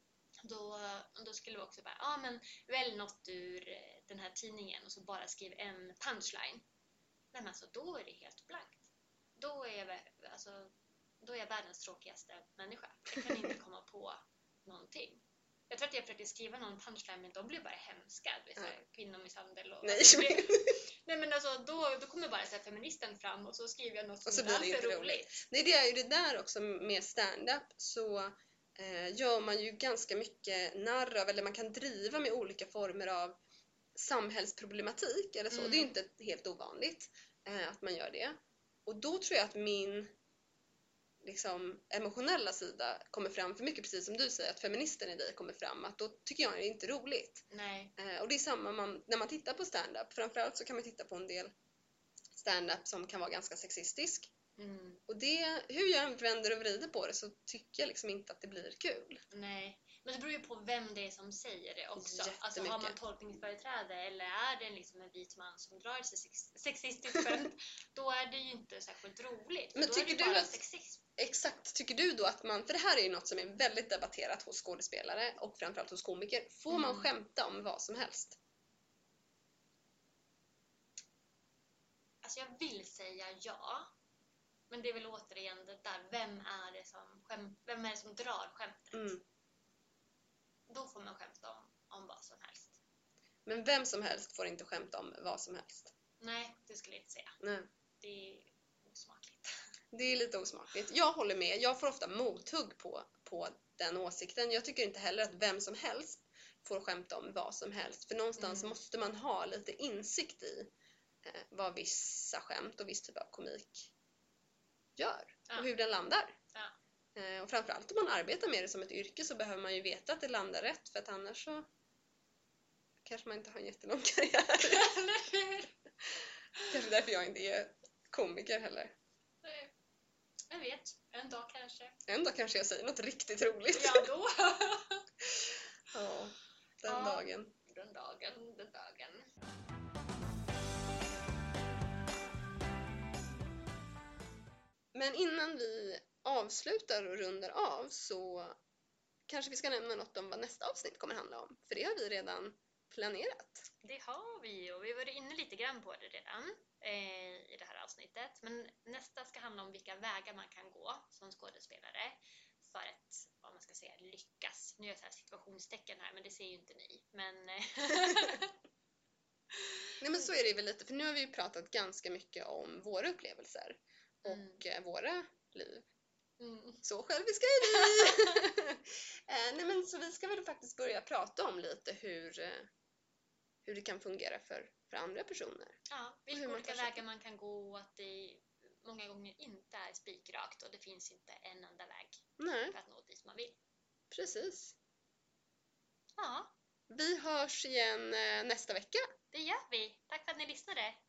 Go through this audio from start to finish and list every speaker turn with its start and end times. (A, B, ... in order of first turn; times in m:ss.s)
0:00.4-0:06.6 A
0:07.3-0:25.4 A
0:13.2-0:13.5 B
0:19.8-0:20.8 B
0:24.2-0:33.4 B
0:33.9-0:40.1 B
0:35.5-0:35.9 A
0:41.2-0:47.4 B
0:47.5-0:47.9 A
0:48.0-0:51.5 B
0:52.3-0:54.3 B
0:54.6-0:55.0 A
0:55.1-0:59.2 B
0:59.3-1:11.0 A
1:02.0-1:03.0 B
1:09.8-1:10.6 B
1:11.2-1:18.4 B
1:16.7-1:17.1 A
1:22.2-1:23.9 A
1:24.7-1:29.2 A
1:28.9-1:29.2 B
1:30.7-1:32.8 A
1:33.4-1:35.9 B
1:36.2-1:37.4 A
1:37.4-1:37.7 B
1:38.0-1:39.6 A
1:39.9-1:50.7 B
1:48.4-1:48.8 A
1:51.2-1:53.9 B
1:55.0-1:56.4 B
1:57.1-2:01.6 B
2:03.0-2:04.9 B
2:04.6-2:05.8 A
2:06.7-2:08.9 B
2:09.4-2:09.7 A
2:10.5-2:12.0 A
2:12.1-2:14.1 B
2:13.7-2:15.1 A
2:15.9-2:17.5 B
2:16.8-2:19.3 A
2:24.9-2:28.6 B
2:29.3-2:33.6 B
2:33.8-2:48.6 A
2:50.0-2:55.9 B
2:54.2-2:54.6 A
2:56.4-2:56.8 A
2:56.8-3:02.7 B
2:57.6-2:58.5 A
3:03.6-3:05.8 B
3:05.9-3:13.6 A
3:06.3-3:07.0 B
3:12.4-3:12.8 B
3:14.1-3:14.8 B
3:16.2-3:16.5 A
3:16.9-3:19.1 B
3:19.3-3:21.0 A